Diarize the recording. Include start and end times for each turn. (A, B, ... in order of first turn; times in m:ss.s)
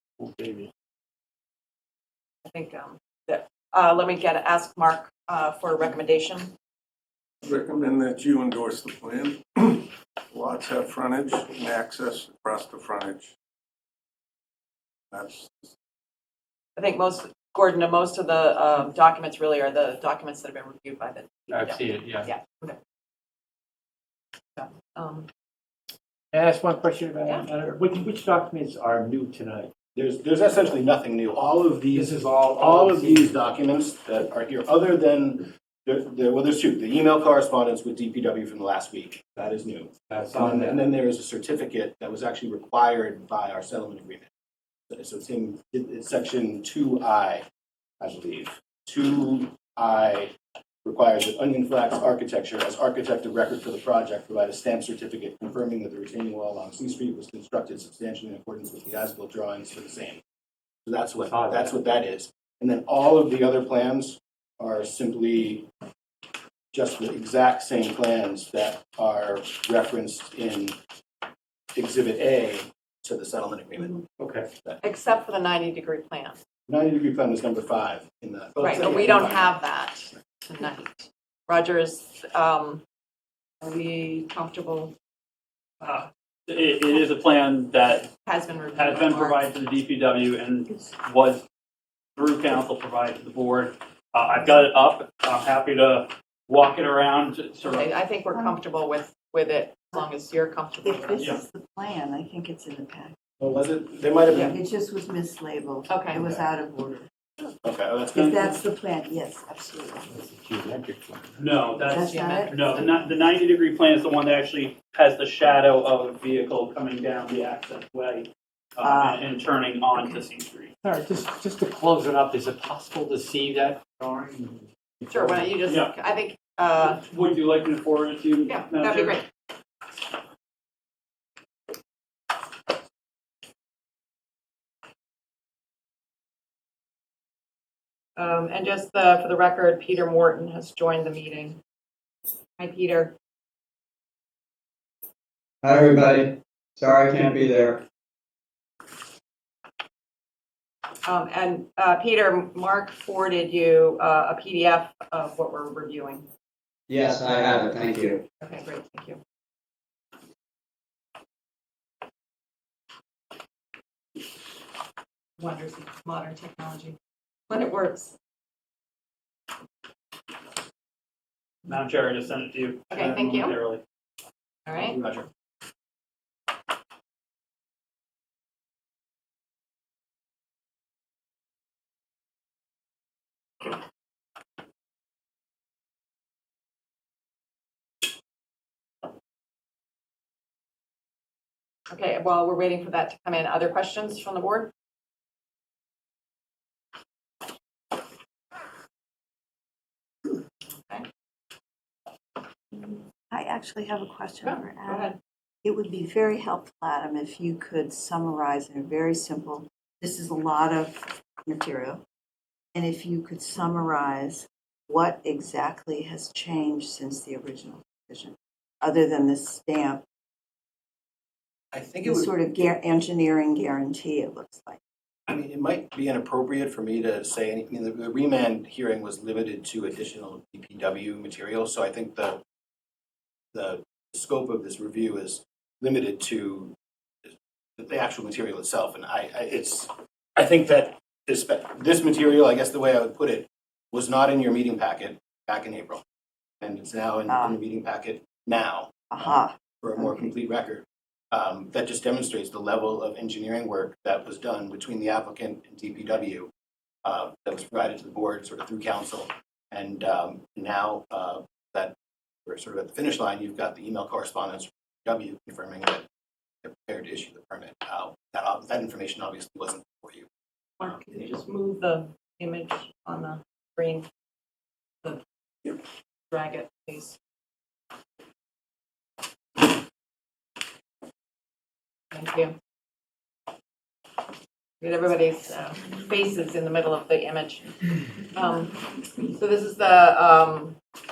0:00.2-0:00.7 A
0:02.4-0:06.5 B
0:07.4-0:13.3 C
0:15.1-0:15.7 C
0:16.8-0:22.8 B
0:21.5-0:22.3 A
0:24.6-0:25.3 B
0:26.3-0:29.7 A
0:29.9-0:44.3 D
0:31.9-0:33.4 A
0:40.1-0:40.8 A
0:44.9-0:47.4 D
0:48.0-0:50.3 D
0:50.8-1:00.2 D
1:00.8-1:05.7 D
1:01.2-1:01.8 A
1:06.7-1:10.8 D
1:11.7-1:14.0 D
1:14.2-1:14.5 A
1:14.8-1:16.4 B
1:16.7-1:19.6 D
1:18.6-1:22.8 B
1:23.6-1:24.9 B
1:25.8-1:26.1 B
1:26.5-1:28.1 E
1:28.2-1:29.4 B
1:28.7-1:31.4 E
1:32.2-1:37.9 E
1:37.6-1:41.3 B
1:40.8-1:43.2 F
1:41.2-1:41.4 E
1:43.4-1:44.5 D
1:44.4-1:47.1 F
1:45.9-1:46.3 B
1:47.6-1:48.3 D
1:48.1-1:50.1 F
1:48.1-1:48.6 E
1:50.1-1:51.4 A
1:51.4-2:00.7 E
1:51.8-1:52.8 F
1:52.0-1:53.0 B
1:58.8-1:59.3 F
2:00.8-2:05.5 A
2:05.1-2:07.0 B
2:05.6-2:05.9 E
2:06.8-2:09.2 E
2:08.4-2:09.2 B
2:18.2-2:21.6 B
2:22.6-2:23.2 B
2:25.6-2:27.8 G
2:31.0-2:36.3 B
2:36.9-2:38.2 G
2:38.4-2:39.2 B
2:45.4-2:47.0 B
2:47.5-2:48.1 B
2:51.7-2:53.8 E
2:52.9-2:53.6 B
2:54.7-2:55.0 B
2:54.8-2:55.3 D
3:11.9-3:14.7 B
3:23.3-3:25.1 F
3:24.4-3:25.2 B
3:25.6-3:32.0 F
3:32.7-3:40.0 F
3:41.7-3:42.4 D
3:42.0-3:44.8 F
3:45.3-3:52.4 D
3:53.5-4:06.0 D
4:06.6-4:16.5 D
4:07.3-4:07.6 F
4:09.1-4:10.3 F
4:17.0-4:21.9 D
4:22.4-4:26.0 D
4:26.6-4:30.3 D
4:30.8-4:34.1 B
4:35.0-4:35.8 B
4:36.3-4:37.2 B
4:42.1-4:42.5 B
4:44.8-4:47.8 B
4:48.3-4:50.8 B